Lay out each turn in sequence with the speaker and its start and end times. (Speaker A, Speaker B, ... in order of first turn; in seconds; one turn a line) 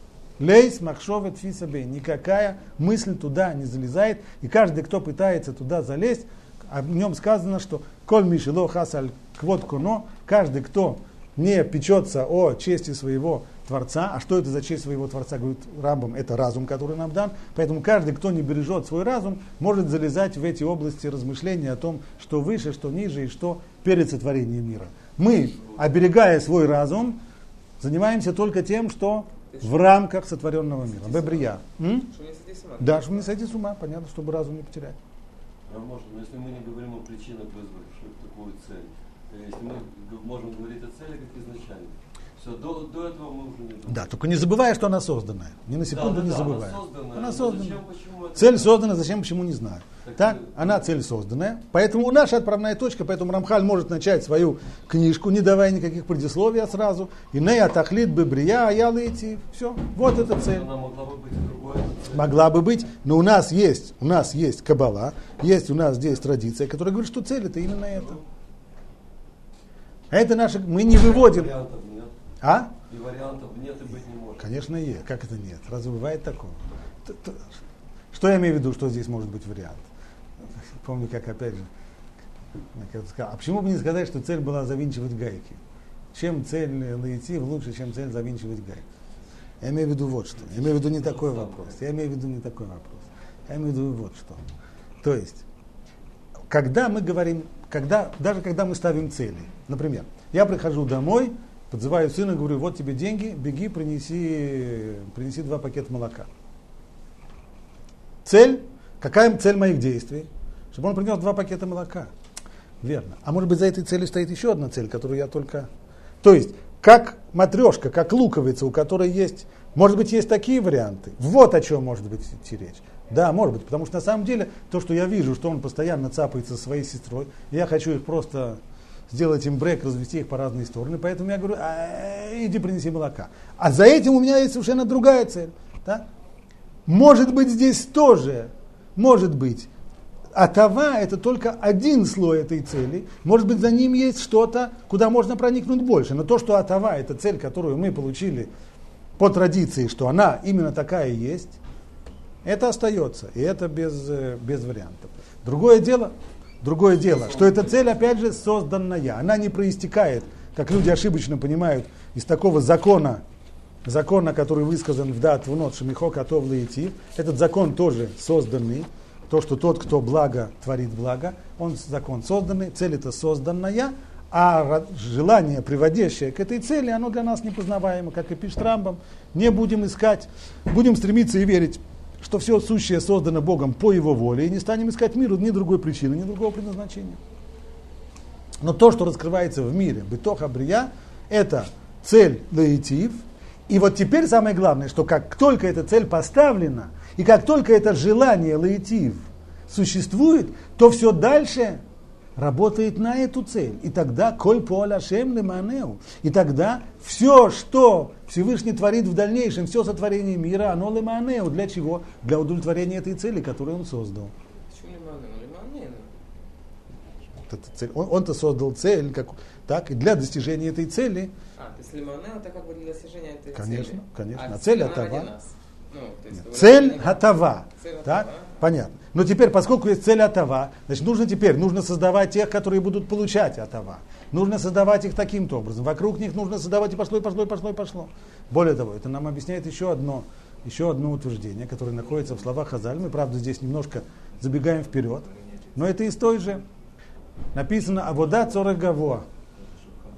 Speaker A: 0.4-27.2
Speaker A: 27.8-32.1
Speaker B: 31.0-31.5
Speaker B: 32.1-33.3
Speaker A: 32.8-35.0
Speaker C: 35.7-44.1
Speaker A: 43.9-47.8
Speaker C: 45.9-49.0
Speaker A: 48.3-60.7
Speaker C: 50.0-50.8
Speaker C: 60.1-62.4
Speaker A: 62.1-68.2
Speaker A: 70.1-71.5
Speaker C: 70.9-72.1
Speaker A: 72.4-72.7
Speaker C: 72.9-74.5
Speaker A: 74.4-77.5
Speaker A: 78.1-79.8
Speaker A: 80.5-81.7
Speaker A: 82.7-85.6
Speaker A: 86.1-88.8
Speaker A: 89.6-94.4
Speaker C: 90.4-91.7
Speaker A: 95.0-95.4
Speaker A: 96.5-106.3
Speaker A: 108.2-112.1
Speaker A: 112.8-115.7
Speaker A: 116.2-136.1
Speaker A: 136.8-139.7
Speaker A: 140.3-148.5
Speaker A: 149.2-151.6
Speaker A: 152.4-163.2
Speaker C: 157.0-158.0
Speaker A: 163.8-187.2
Speaker A: 188.6-201.8
Speaker A: 202.3-214.3
Speaker B: 214.7-216.1
Speaker A: 217.5-221.3
Speaker B: 221.6-228.6
Speaker A: 223.5-225.3
Speaker A: 226.3-246.6
Speaker A: 247.5-249.2